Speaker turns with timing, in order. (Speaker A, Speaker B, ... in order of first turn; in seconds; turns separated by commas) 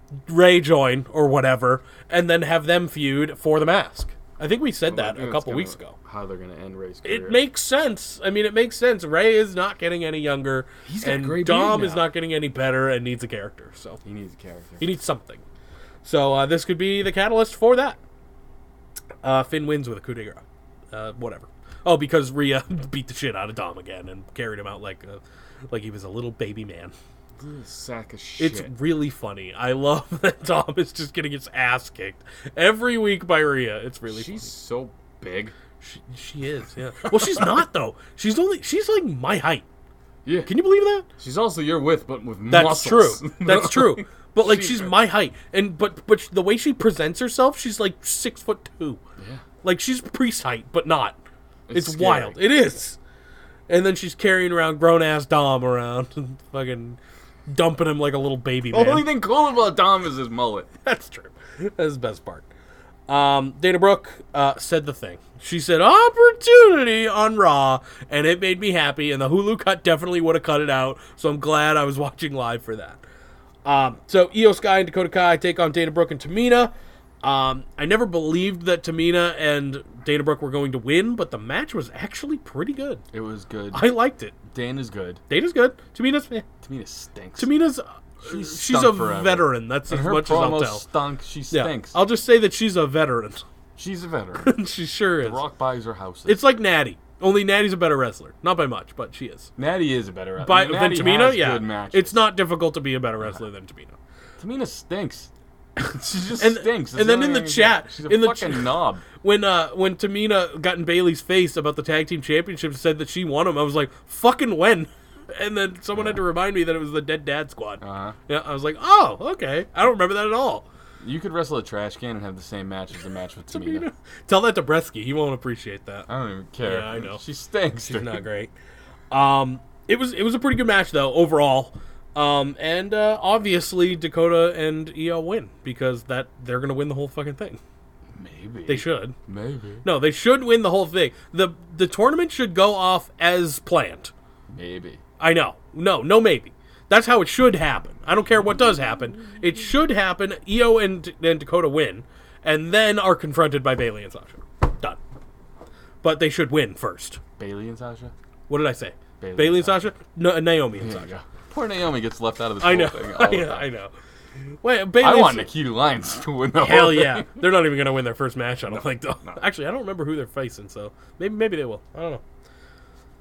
Speaker A: 0.3-6.0, Speaker B: 4.9-7.4, Speaker A: 7.0-14.0, Speaker B: 10.8-12.1, Speaker B: 14.0-14.9, Speaker A: 14.8-15.4, Speaker A: 16.0-18.0, Speaker A: 19.2-26.9, Speaker B: 27.4-28.7, Speaker A: 28.4-34.5, Speaker B: 34.1-35.5, Speaker A: 35.8-39.6, Speaker B: 37.1-37.6, Speaker B: 40.2-40.5, Speaker A: 40.5-41.0, Speaker B: 41.2-44.9, Speaker A: 42.5-49.0, Speaker B: 49.2-49.4, Speaker A: 49.6-51.2, Speaker B: 51.7-52.4, Speaker A: 51.7-53.0, Speaker A: 53.7-59.1, Speaker B: 58.7-60.7, Speaker A: 60.8-62.5, Speaker A: 63.1-73.0, Speaker A: 73.6-83.0, Speaker B: 83.1-84.0, Speaker A: 83.7-84.4, Speaker B: 84.5-85.2, Speaker A: 85.3-86.5, Speaker B: 86.6-87.5, Speaker A: 87.4-90.8, Speaker B: 88.2-91.9, Speaker A: 91.5-93.4, Speaker B: 93.8-94.5, Speaker A: 94.4-95.4, Speaker B: 95.2-96.4, Speaker A: 96.2-99.5, Speaker B: 99.6-102.2, Speaker A: 100.4-104.0, Speaker B: 104.4-109.0, Speaker A: 106.4-120.6, Speaker B: 115.9-116.2, Speaker B: 117.8-118.2, Speaker B: 121.0-123.8, Speaker A: 123.5-126.1, Speaker B: 126.1-128.2, Speaker A: 126.6-127.2, Speaker A: 127.8-128.5, Speaker A: 129.1-137.6, Speaker B: 138.1-139.8, Speaker A: 138.7-139.1, Speaker A: 139.8-144.1, Speaker B: 144.5-145.0, Speaker A: 145.2-155.0, Speaker A: 156.0-157.2, Speaker B: 157.4-158.1, Speaker A: 158.5-161.1, Speaker B: 159.2-159.9, Speaker B: 160.8-163.6, Speaker A: 162.6-163.9, Speaker A: 164.6-165.5, Speaker B: 165.0-167.3, Speaker A: 166.6-172.2, Speaker B: 168.7-169.4